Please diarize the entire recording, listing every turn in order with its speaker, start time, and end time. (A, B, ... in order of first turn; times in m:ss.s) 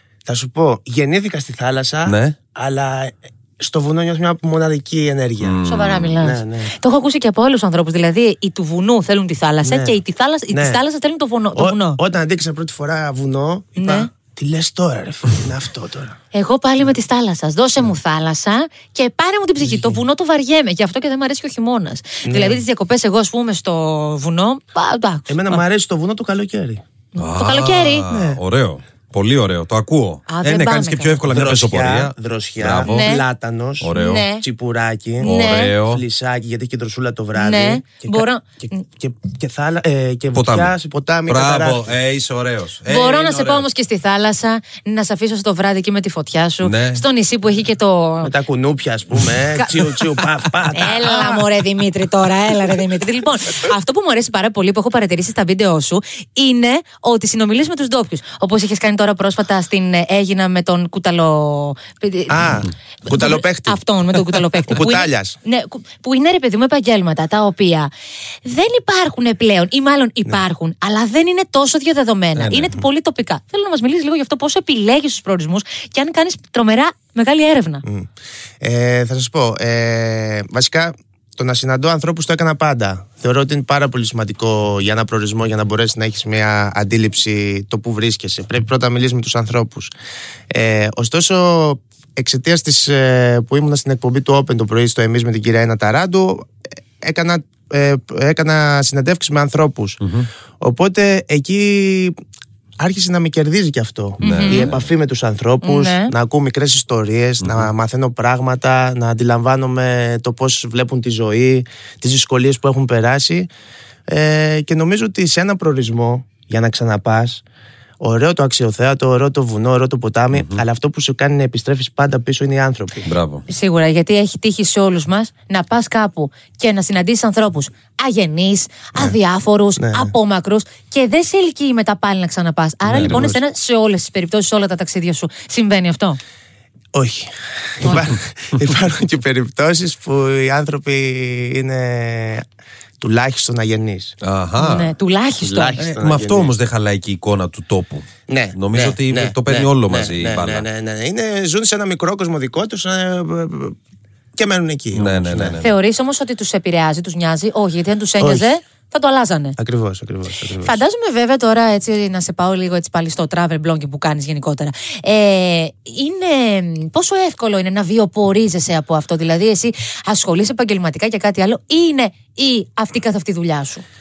0:00.3-0:06.7 A
0:02.1-0:02.4 B
0:05.4-0:06.2 B
0:05.6-0:12.0 C
0:09.6-0:10.0 A
0:10.5-0:10.8 A
0:11.6-0:16.2 A
0:13.8-0:14.1 C
0:16.3-0:25.6 C
0:19.6-0:20.0 A
0:22.2-0:22.6 A
0:25.3-0:26.8 A
0:27.2-0:28.0 C
0:27.2-0:33.1 B
0:28.1-0:28.4 A
0:30.3-0:31.2 C
0:31.3-0:42.0 A
0:32.8-0:33.2 C
0:33.8-0:34.3 B
0:34.0-0:34.4 C
0:35.2-0:35.8 C
0:35.2-0:36.0 B
0:37.4-0:38.8 C
0:40.4-0:40.7 B
0:41.3-0:43.7 B
0:42.8-0:48.3 C
0:46.6-0:47.0 B
0:48.2-0:51.5 A
0:50.7-1:07.9 C
1:02.3-1:03.8 A
1:04.7-1:05.4 A
1:08.4-1:17.8 C
1:12.4-1:12.7 B
1:17.8-1:18.1 A
1:18.6-1:29.9 A
1:30.5-1:36.5 A
1:37.0-1:40.0 A
1:40.0-1:40.3 B
1:40.6-1:42.2 A
1:42.8-1:53.5 A
1:44.2-1:44.9 B
1:44.2-1:44.7 C
1:45.6-1:46.1 C
1:47.4-1:47.7 B
1:54.1-1:57.4 A
1:58.0-2:03.1 A
2:00.3-2:00.6 B
2:03.1-2:03.4 B
2:03.5-2:16.2 C
2:09.8-2:10.1 A
2:12.9-2:13.2 B
2:12.9-2:13.4 A
2:16.9-2:22.4 A
2:23.0-2:24.2 A
2:24.2-2:25.0 B
2:24.6-2:25.8 C
2:25.4-2:26.5 A
2:25.8-2:30.7 B
2:28.3-2:33.8 A
2:34.4-2:35.6 A
2:34.9-2:35.8 B
2:35.6-2:39.6 C
2:38.2-2:38.5 A
2:39.6-2:40.8 A
2:40.6-2:53.8 C